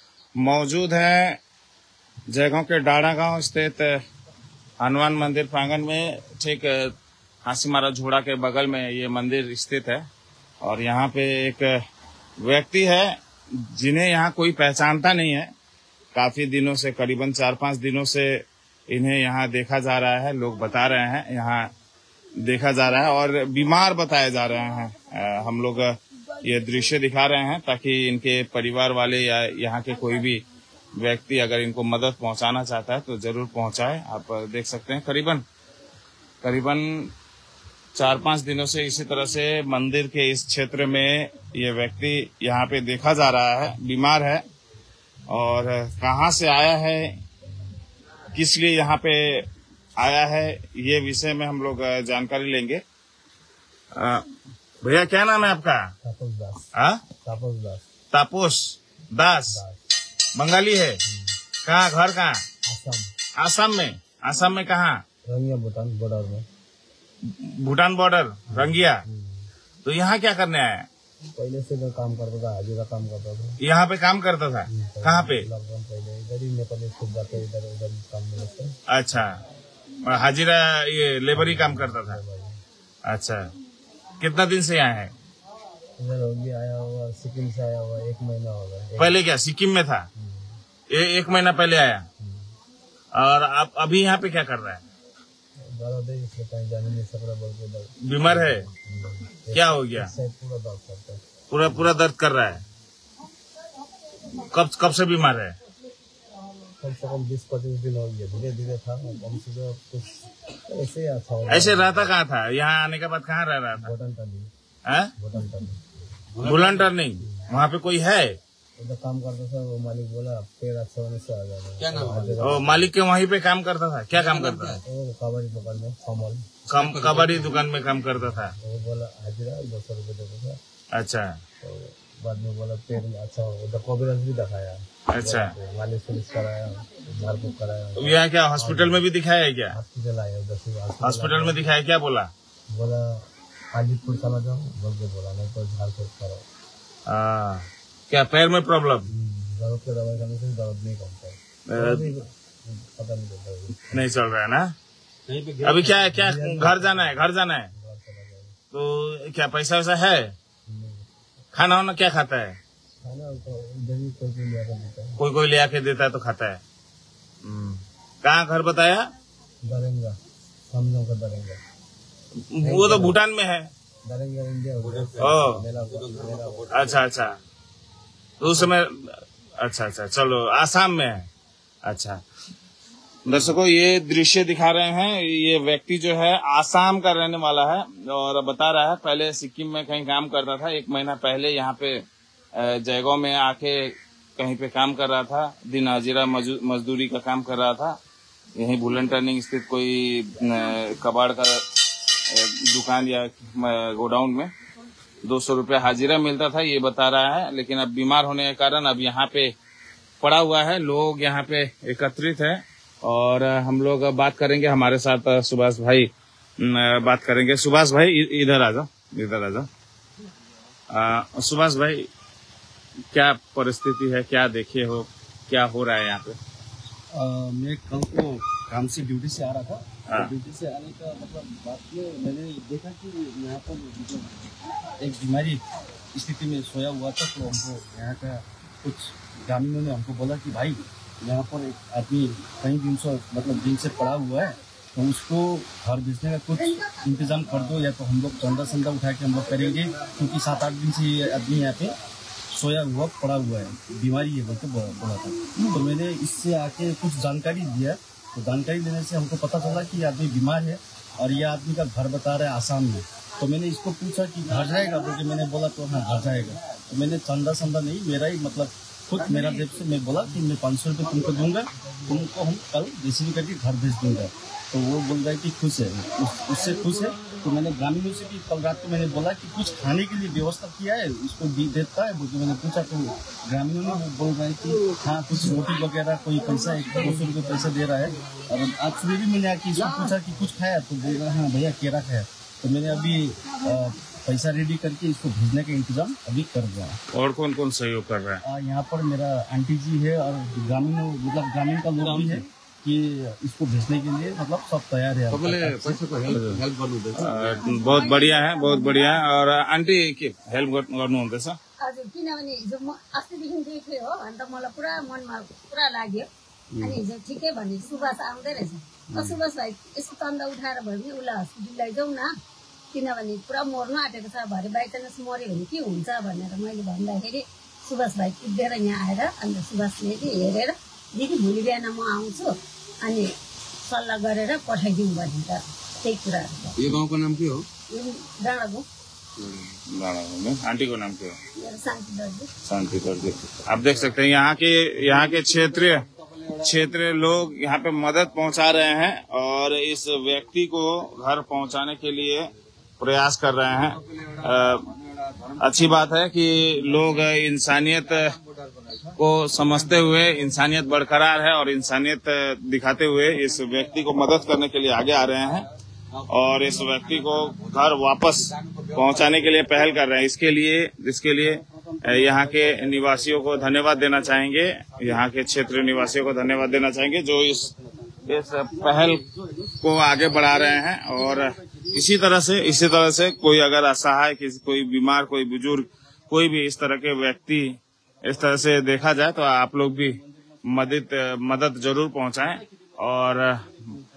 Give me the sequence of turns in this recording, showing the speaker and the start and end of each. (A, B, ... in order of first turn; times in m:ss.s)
0:00.4-0:01.4 A
0:02.3-0:04.0 A
0:04.8-0:10.1 A
0:10.6-0:11.7 A
0:12.4-0:15.5 A
0:16.1-0:21.7 A
0:22.4-0:30.4 A
0:31.0-0:35.4 A
0:36.4-0:37.1 A
0:38.0-0:44.4 A
0:45.3-0:47.2 A
0:48.3-0:52.8 A
0:53.9-0:54.2 A
0:54.8-0:55.9 A
0:56.0-0:56.7 B
0:56.8-0:57.0 A
0:57.2-0:57.8 B
0:58.1-0:59.6 A
1:00.4-1:01.0 A
1:01.1-1:01.4 B
1:01.6-1:02.4 A
1:02.7-1:03.1 B
1:03.4-1:05.0 A
1:05.3-1:06.4 B
1:07.3-1:09.0 A
1:08.5-1:09.5 B
1:09.8-1:10.9 A
1:11.4-1:13.6 B
1:13.6-1:15.5 A
1:14.7-1:18.7 B
1:18.9-1:19.4 A
1:20.0-1:22.2 A
1:21.3-1:22.6 B
1:23.1-1:23.5 A
1:24.2-1:25.1 A
1:26.0-1:29.2 B
1:29.0-1:30.1 A
1:30.2-1:30.6 B
1:30.9-1:32.1 A
1:32.2-1:32.5 B
1:33.1-1:34.8 A
1:35.6-1:41.9 B
1:38.0-1:38.7 A
1:39.5-1:40.1 A
1:41.5-1:42.6 A
1:44.4-1:45.6 A
1:46.8-1:52.1 B
1:51.5-1:53.9 A
1:53.8-1:54.5 B
1:54.9-1:55.1 A
1:55.2-1:55.9 B
1:56.4-1:56.9 C
1:56.4-1:58.4 A
1:57.2-1:57.5 B
1:58.8-2:02.9 B
2:01.8-2:02.4 C
2:02.4-2:04.8 A
2:04.1-2:04.8 C
2:04.8-2:06.5 B
2:06.7-2:08.6 A
2:06.8-2:07.5 C
2:08.3-2:10.6 B
2:10.9-2:11.4 A
2:11.6-2:19.0 B
2:15.1-2:15.5 A
2:18.0-2:19.8 A
2:19.7-2:21.7 B
2:21.0-2:22.3 A
2:22.7-2:26.4 B
2:27.1-2:29.1 A
2:29.1-2:34.1 B
2:31.7-2:32.1 A
2:33.9-2:34.7 A
2:35.3-2:36.1 D
2:35.6-2:37.7 A
2:36.1-2:38.6 B
2:38.7-2:40.3 A
2:40.7-2:41.1 B
2:41.5-2:42.6 A
2:43.0-2:45.2 B
2:45.2-2:46.6 A
2:47.4-2:49.1 A
2:49.6-2:50.2 B
2:50.7-2:51.6 B
2:52.5-2:53.7 A
2:52.6-2:53.2 B
2:54.0-2:57.0 B
2:54.8-2:57.0 C
2:55.2-2:55.6 A
2:56.7-2:57.4 A
2:58.4-3:01.3 A
3:01.8-3:02.2 A
3:03.2-3:12.0 A
3:12.6-3:18.0 A
3:18.6-3:24.5 A
3:25.2-3:29.5 A
3:30.2-3:39.7 A
3:40.9-3:42.1 A
3:43.1-3:46.4 A
3:47.1-3:54.4 D
3:50.1-3:50.3 A
3:55.0-3:55.6 D
3:56.1-4:12.0 D
4:12.5-4:57.0 D
4:57.1-4:58.4 A
4:58.4-5:06.0 D
5:02.2-5:02.4 C
5:05.3-5:07.8 C
5:06.3-5:06.6 A
5:07.2-5:11.6 A
5:07.6-5:09.2 E
5:11.8-5:16.3 E
5:16.8-5:22.3 E
5:22.9-5:33.3 E
5:33.8-5:36.9 E
5:36.8-5:37.7 C
5:37.9-5:38.9 E
5:39.9-5:41.4 A
5:41.6-5:42.5 E
5:42.6-5:46.0 A
5:46.6-5:54.9 A
5:55.6-5:58.2 A
5:58.8-5:59.1 C
5:59.2-6:05.7 A
6:06.3-6:17.7 A
6:18.3-6:19.2 A
6:19.8-6:33.7 A